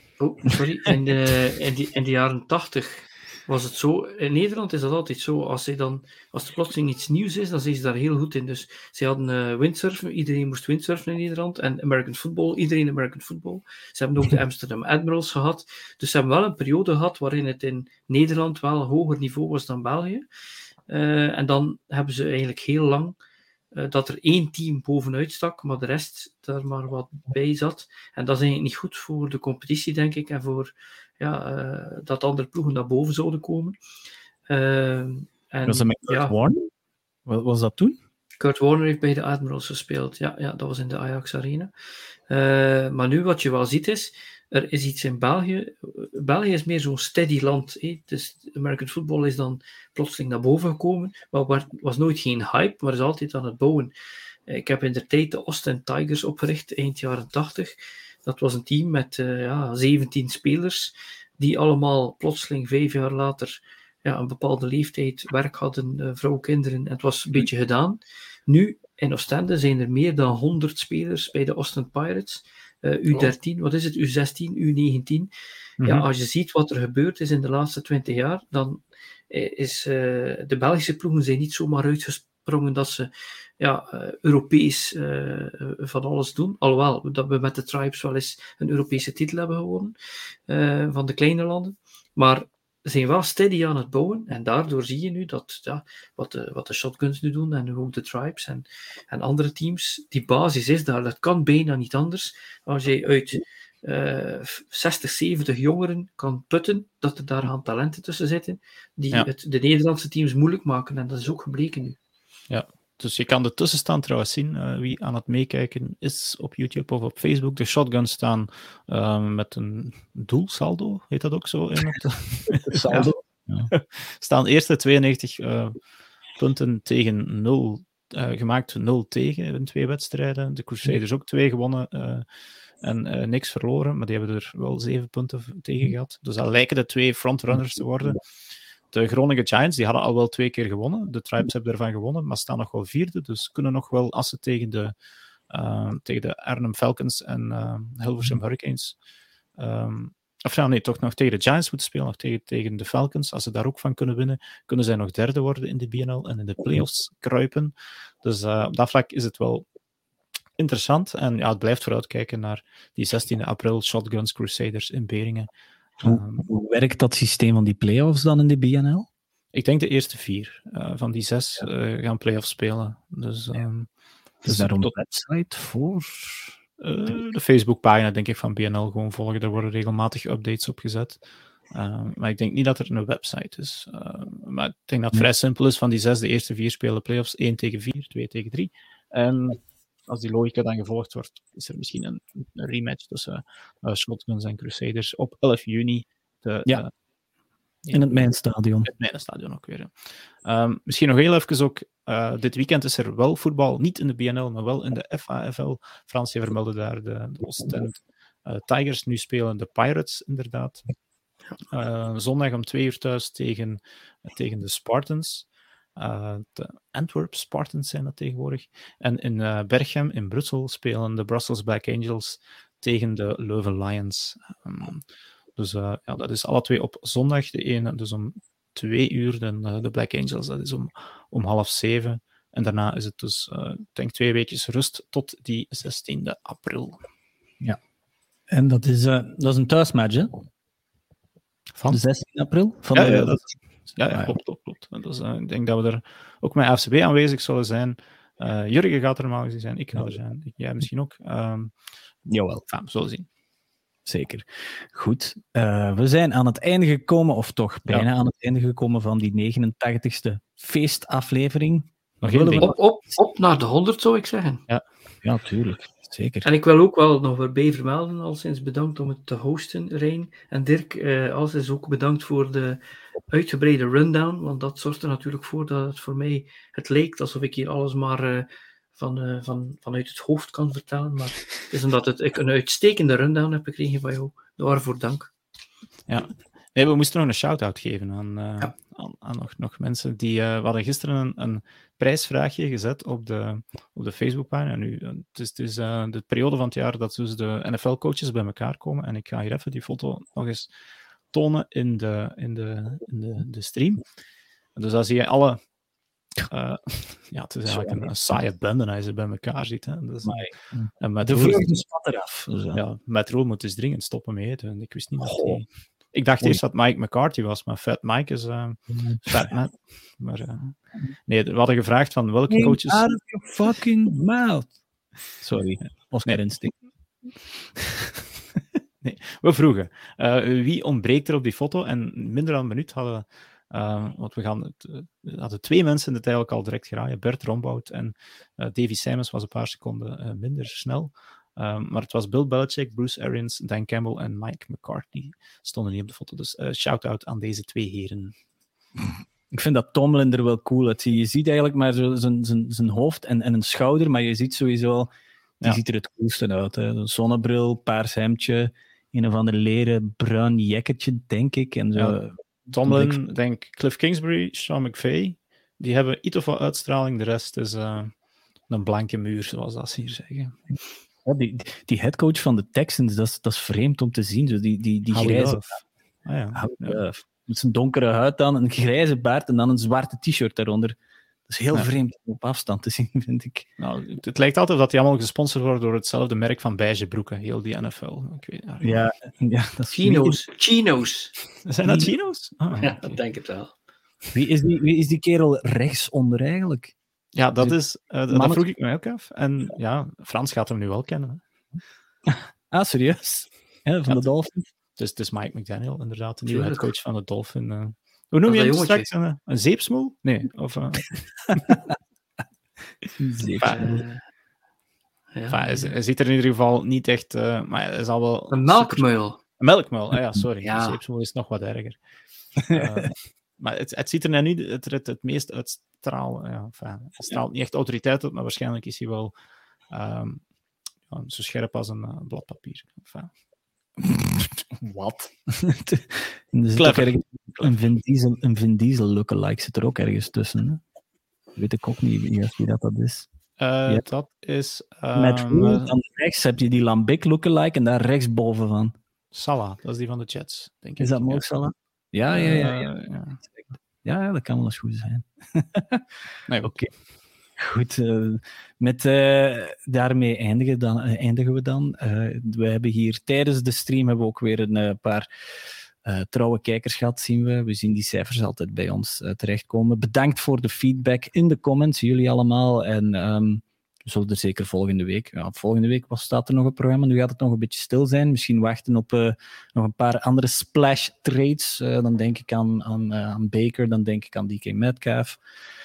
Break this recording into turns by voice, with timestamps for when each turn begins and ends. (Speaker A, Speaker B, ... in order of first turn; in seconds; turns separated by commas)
Speaker A: 0.2-20.2, Speaker A: 20.9-23.1, Speaker A: 23.7-33.8, Speaker A: 34.5-36.3, Speaker B: 35.7-36.7, Speaker B: 37.3-38.0, Speaker A: 38.4-41.7, Speaker A: 42.3-53.9, Speaker A: 54.5-57.7, Speaker A: 58.2-75.3, Speaker C: 75.8-76.1, Speaker A: 75.8-89.9, Speaker A: 90.5-112.0, Speaker C: 112.5-123.1, Speaker B: 122.5-123.7, Speaker C: 123.7-125.8, Speaker C: 126.4-132.3, Speaker C: 132.8-138.2, Speaker C: 138.9-144.9, Speaker C: 145.5-149.0, Speaker C: 149.6-159.7, Speaker C: 160.6-166.5, Speaker B: 166.0-169.1, Speaker C: 169.5-173.9, Speaker C: 174.4-174.9, Speaker B: 174.4-176.6, Speaker C: 176.8-181.2, Speaker C: 181.7-196.9, Speaker C: 197.8-198.2, Speaker B: 197.9-198.9, Speaker C: 198.8-199.9, Speaker C: 200.4-210.9, Speaker C: 211.7-225.0, Speaker C: 225.6-237.0, Speaker B: 238.5-240.3, Speaker C: 241.8-242.0, Speaker B: 241.9-243.4, Speaker C: 242.9-251.7, Speaker B: 252.3-252.7, Speaker C: 252.7-253.3, Speaker B: 254.1-262.8, Speaker C: 262.2-262.7, Speaker A: 262.6-264.6, Speaker B: 265.2-266.5, Speaker A: 266.4-285.3, Speaker C: 286.1-300.7, Speaker C: 301.3-304.0, Speaker C: 304.8-305.6, Speaker C: 306.5-310.4, Speaker B: 307.7-308.1, Speaker B: 310.2-312.8, Speaker C: 311.0-311.8, Speaker C: 312.7-323.1, Speaker B: 315.2-315.6, Speaker B: 318.9-319.5, Speaker B: 322.5-324.7, Speaker B: 325.4-326.8, Speaker C: 329.0-348.4, Speaker B: 349.5-363.2, Speaker C: 362.7-368.1, Speaker C: 368.7-370.6, Speaker B: 371.2-375.6, Speaker C: 375.1-377.0, Speaker B: 376.5-381.0, Speaker B: 381.5-383.7, Speaker C: 383.8-389.1, Speaker B: 388.8-390.4, Speaker A: 389.9-391.3, Speaker C: 391.7-393.0, Speaker A: 392.8-393.7, Speaker B: 394.3-396.9, Speaker C: 397.4-401.4, Speaker B: 398.3-398.6, Speaker B: 402.3-404.7, Speaker C: 405.0-411.8, Speaker A: 406.5-406.9, Speaker A: 408.5-409.1, Speaker B: 411.7-411.9, Speaker B: 413.2-414.0, Speaker C: 413.6-414.0, Speaker A: 413.8-414.2, Speaker A: 415.4-415.9, Speaker C: 415.5-422.0, Speaker A: 418.5-419.4, Speaker A: 420.6-421.0, Speaker C: 422.6-429.3, Speaker B: 422.6-423.1, Speaker C: 429.9-430.4, Speaker C: 431.1-433.3, Speaker B: 434.0-440.8, Speaker C: 436.8-437.7, Speaker B: 441.6-443.3, Speaker C: 443.6-445.9, Speaker B: 445.1-448.9, Speaker C: 449.3-451.5, Speaker B: 451.0-452.9, Speaker C: 452.3-453.4, Speaker B: 453.5-456.1, Speaker C: 456.5-456.8, Speaker B: 456.6-456.9, Speaker B: 457.6-465.3, Speaker B: 466.0-485.4